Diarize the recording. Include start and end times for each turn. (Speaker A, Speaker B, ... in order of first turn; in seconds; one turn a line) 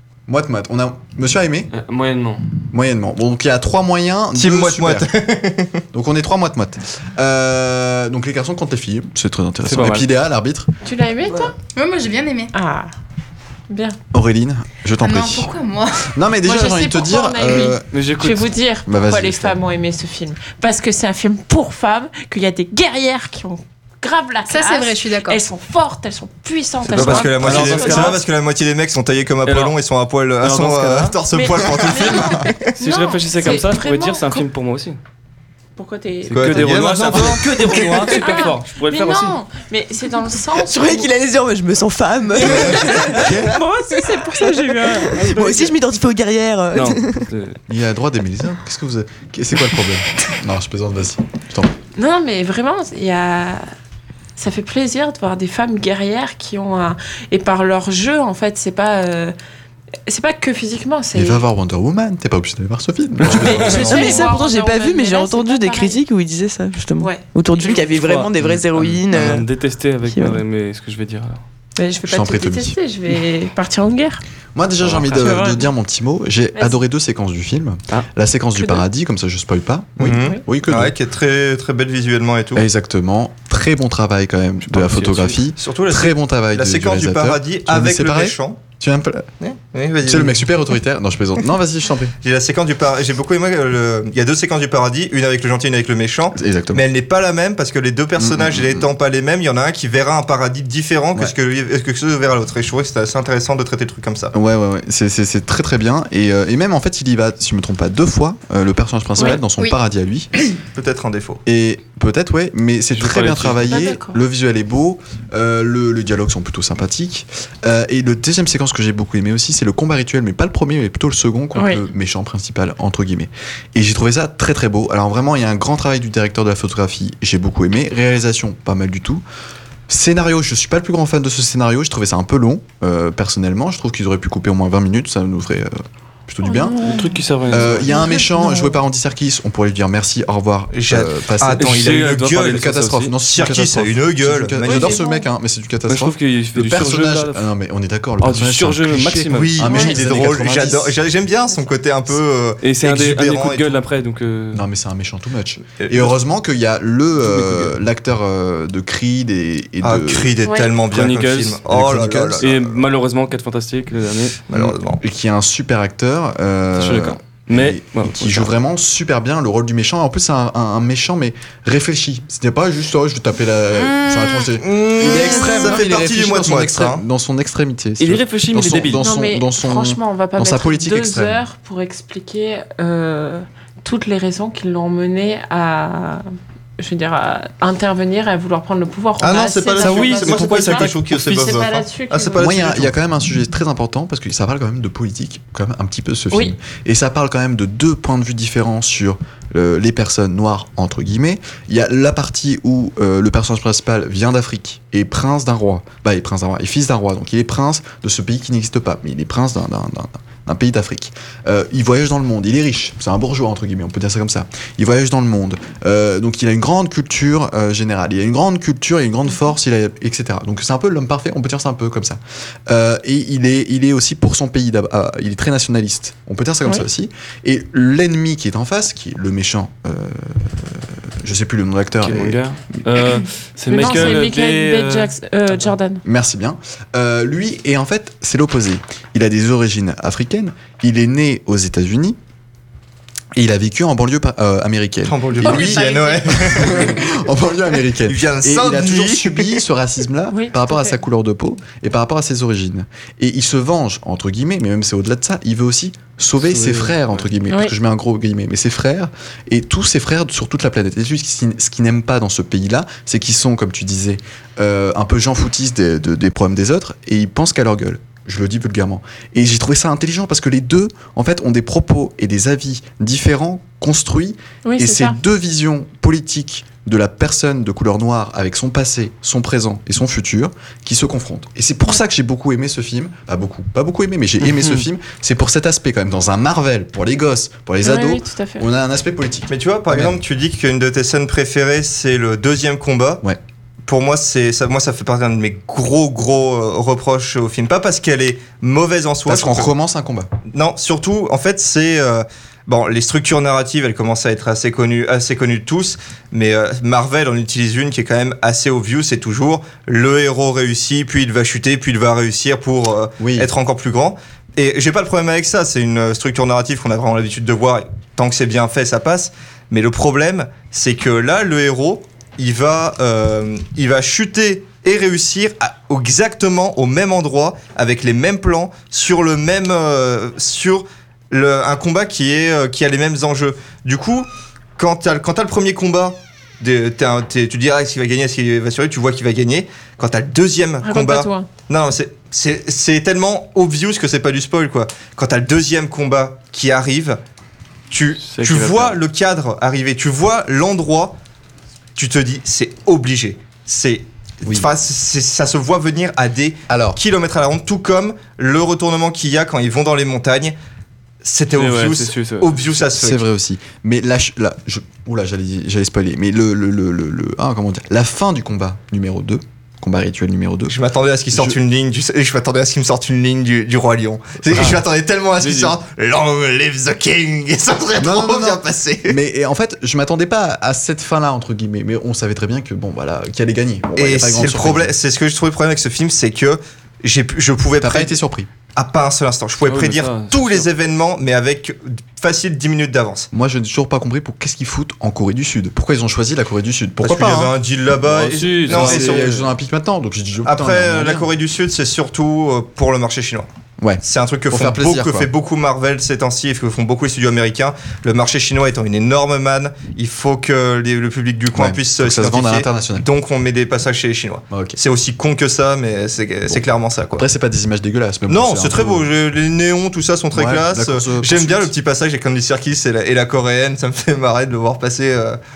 Speaker A: 0.3-1.7
Speaker B: 1.7-2.4
Speaker A: 2.7-5.1
Speaker C: 4.3-5.8
Speaker A: 5.9-10.7
Speaker B: 9.6-10.1
Speaker D: 10.8-11.5
Speaker E: 11.7-12.5
Speaker D: 12.5-12.9
Speaker D: 13.7-14.0
Speaker A: 14.1-15.5
Speaker E: 15.0-16.1
Speaker A: 16.0-17.9
Speaker D: 16.4-28.2
Speaker B: 17.9-18.5
Speaker A: 18.9-19.6
Speaker E: 24.5-25.5
Speaker C: 26.9-32.8
Speaker A: 26.9-28.1
Speaker B: 27.4-28.1
Speaker B: 29.4-29.8
Speaker B: 30.4-31.2
Speaker D: 31.3-34.5
Speaker B: 32.8-35.0
Speaker D: 35.8-36.9
Speaker B: 36.2-39.4
Speaker C: 36.3-38.4
Speaker D: 38.1-41.1
Speaker F: 40.5-43.5
Speaker D: 42.3-45.6
Speaker A: 42.5-43.6
Speaker F: 44.3-47.3
Speaker B: 45.2-45.7
Speaker B: 46.7-47.6
Speaker A: 47.7-51.7
Speaker D: 52.0-53.7
Speaker D: 54.4-59.3
Speaker D: 60.0-61.4
Speaker A: 61.1-64.2
Speaker B: 63.2-64.2
Speaker D: 63.2-66.0
Speaker F: 63.9-69.5
Speaker D: 67.0-67.9
Speaker B: 67.9-68.3
Speaker A: 68.4-69.4
Speaker B: 69.0-71.4
Speaker F: 70.1-70.4
Speaker D: 71.8-74.2
Speaker A: 72.0-72.8
Speaker A: 74.5-80.9
Speaker B: 74.8-75.2
Speaker D: 75.1-75.7
Speaker C: 80.0-82.6
Speaker D: 80.1-80.4
Speaker A: 82.5-89.3
Speaker B: 84.7-85.4
Speaker C: 85.6-88.6
Speaker C: 89.4-90.4
Speaker A: 90.0-92.1
Speaker C: 92.2-104.3
Speaker A: 96.3-96.8
Speaker A: 98.2-98.9
Speaker A: 104.3-110.3
Speaker E: 109.3-109.8
Speaker C: 110.7-111.4
Speaker A: 111.5-129.2
Speaker B: 112.9-113.8
Speaker D: 113.7-114.2
Speaker D: 121.5-121.8
Speaker A: 129.9-136.9
Speaker D: 136.4-138.2
Speaker B: 136.8-138.1
Speaker A: 137.5-151.0
Speaker E: 137.9-138.7
Speaker C: 140.7-142.7
Speaker B: 141.6-143.1
Speaker C: 143.2-145.0
Speaker D: 144.6-145.1
Speaker B: 145.9-147.5
Speaker B: 148.2-150.6
Speaker C: 149.3-153.8
Speaker B: 152.6-154.6
Speaker A: 154.5-160.3
Speaker C: 155.8-156.1
Speaker C: 157.2-157.6
Speaker C: 159.8-162.8
Speaker D: 160.4-160.8
Speaker B: 160.8-161.6
Speaker A: 161.7-162.5
Speaker B: 162.4-164.4
Speaker C: 164.5-165.0
Speaker A: 164.5-181.4
Speaker B: 166.8-168.5
Speaker C: 174.4-177.0
Speaker B: 178.0-179.1
Speaker D: 179.0-186.2
Speaker D: 186.8-192.6
Speaker C: 189.2-192.9
Speaker B: 189.8-191.5
Speaker A: 192.4-232.4
Speaker D: 196.3-196.6
Speaker B: 232.0-235.1
Speaker D: 233.7-236.0
Speaker A: 233.8-234.2
Speaker A: 236.0-242.2
Speaker A: 243.3-290.2
Speaker C: 245.0-247.1
Speaker D: 245.4-246.8
Speaker C: 248.0-249.6
Speaker D: 250.3-251.0
Speaker B: 256.4-257.3
Speaker D: 257.5-257.7
Speaker D: 274.6-275.2
Speaker B: 284.4-284.8
Speaker D: 287.8-288.6
Speaker C: 289.5-293.2
Speaker C: 293.8-299.7
Speaker A: 299.2-300.3
Speaker C: 300.5-347.2
Speaker A: 313.2-313.5
Speaker D: 340.8-341.5
Speaker C: 347.9-351.1
Speaker B: 348.2-349.0
Speaker C: 351.9-360.5
Speaker A: 354.4-354.7
Speaker A: 356.7-357.0
Speaker C: 361.2-363.2
Speaker B: 361.5-362.5
Speaker A: 362.9-370.8
Speaker C: 370.7-379.2
Speaker A: 371.3-371.6
Speaker A: 374.5-374.8
Speaker B: 375.4-375.7
Speaker A: 378.0-384.9
Speaker C: 384.0-388.2
Speaker A: 387.8-388.5
Speaker C: 388.7-393.3
Speaker B: 389.6-390.7
Speaker A: 393.3-397.5
Speaker C: 397.0-399.3
Speaker B: 398.0-399.5
Speaker A: 398.7-401.3
Speaker C: 400.4-403.5
Speaker A: 403.8-405.3
Speaker C: 404.0-417.2
Speaker A: 411.5-413.1
Speaker A: 414.5-414.8
Speaker A: 417.1-419.1
Speaker C: 418.3-425.4
Speaker A: 420.3-421.7